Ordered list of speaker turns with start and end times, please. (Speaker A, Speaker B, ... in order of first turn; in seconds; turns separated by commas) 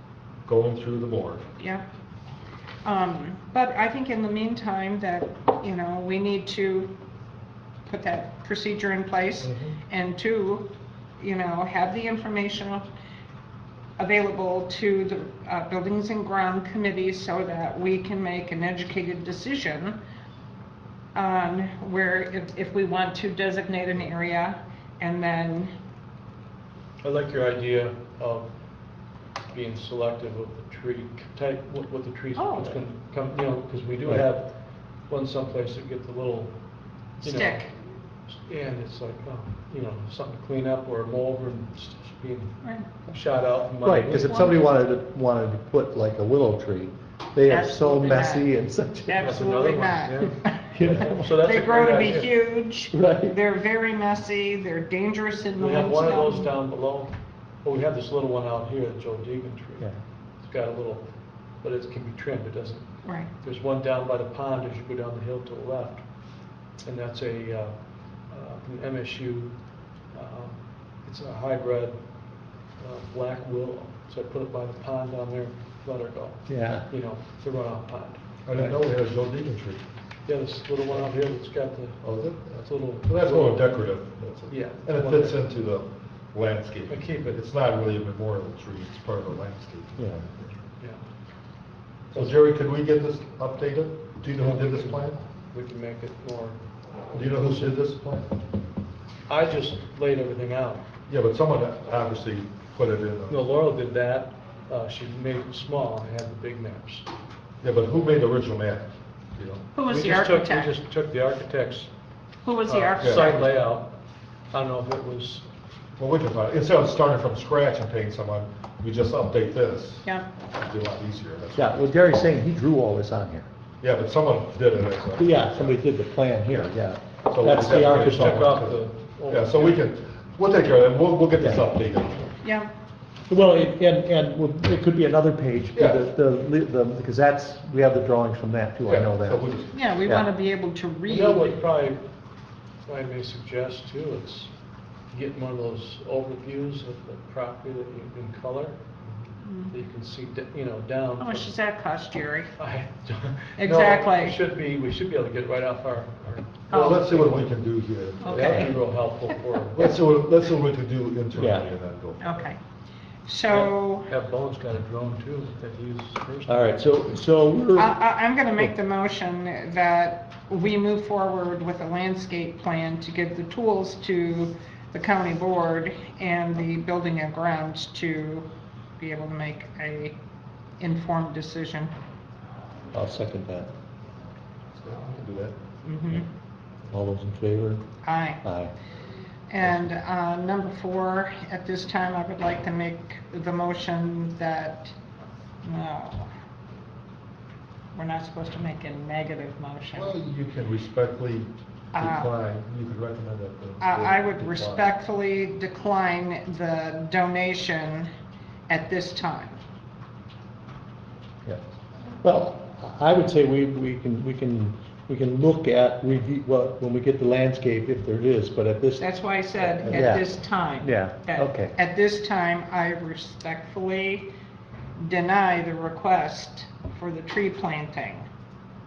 Speaker A: 0.5-1.4, Speaker B: 2.8-6.9, Speaker B: 7.8-10.7, Speaker A: 9.4-9.8, Speaker B: 11.2-12.8, Speaker B: 14.0-20.0, Speaker B: 21.1-25.7, Speaker C: 27.0-28.5, Speaker C: 29.5-36.6, Speaker B: 32.4-32.8, Speaker C: 37.2-37.7, Speaker B: 37.2-37.7, Speaker C: 38.3-44.5, Speaker D: 43.8-49.5, Speaker B: 47.5-48.5, Speaker B: 49.1-56.5, Speaker C: 49.2-52.3, Speaker D: 50.7-51.3, Speaker D: 52.9-53.4, Speaker C: 55.6-59.9, Speaker C: 60.4-66.0, Speaker C: 66.8-69.5, Speaker C: 70.1-72.0, Speaker C: 72.8-78.2, Speaker D: 76.5-76.9, Speaker A: 78.4-79.8, Speaker C: 80.2-83.7, Speaker A: 82.0-90.5, Speaker C: 84.5-85.4, Speaker C: 86.9-87.4, Speaker D: 90.0-90.2, Speaker A: 92.1-95.2, Speaker C: 94.4-97.7, Speaker A: 97.1-98.3, Speaker C: 99.3-100.8, Speaker A: 101.1-103.4, Speaker C: 103.3-107.0, Speaker A: 107.6-109.7, Speaker B: 109.7-110.7, Speaker C: 109.9-111.9, Speaker B: 112.4-113.4, Speaker C: 112.7-113.9, Speaker A: 113.0-113.3, Speaker C: 114.5-115.5, Speaker A: 116.0-121.8, Speaker D: 121.5-123.5, Speaker A: 123.8-125.8, Speaker D: 125.2-128.6, Speaker A: 127.3-132.4, Speaker C: 127.8-129.8, Speaker B: 132.4-132.7, Speaker D: 133.3-139.4, Speaker A: 135.7-136.0, Speaker A: 138.8-139.8, Speaker B: 139.7-141.5, Speaker C: 141.1-142.0, Speaker C: 142.9-144.5, Speaker C: 145.1-148.8, Speaker B: 149.4-149.7, Speaker C: 149.7-151.5, Speaker B: 151.2-152.5, Speaker C: 152.6-157.5, Speaker B: 153.6-154.3, Speaker B: 156.7-157.1, Speaker A: 156.7-158.6, Speaker B: 158.2-158.8, Speaker C: 158.3-159.9, Speaker D: 158.3-158.7, Speaker A: 159.7-162.5, Speaker D: 161.3-161.7, Speaker B: 162.2-162.6, Speaker B: 163.2-164.1, Speaker C: 163.5-166.7, Speaker D: 166.4-168.0, Speaker B: 167.8-178.5, Speaker B: 179.0-180.2, Speaker B: 180.8-181.9, Speaker D: 182.9-183.7, Speaker A: 184.8-185.5, Speaker B: 185.8-186.2, Speaker D: 186.9-187.8, Speaker B: 188.0-188.4, Speaker D: 188.4-188.7, Speaker B: 189.5-194.9, Speaker B: 195.6-196.3, Speaker B: 197.9-200.1, Speaker A: 199.9-204.9, Speaker B: 201.9-202.3, Speaker B: 203.8-208.1, Speaker B: 208.7-209.6, Speaker D: 212.2-219.1, Speaker B: 219.0-224.3, Speaker D: 219.8-221.7, Speaker B: 225.0-228.3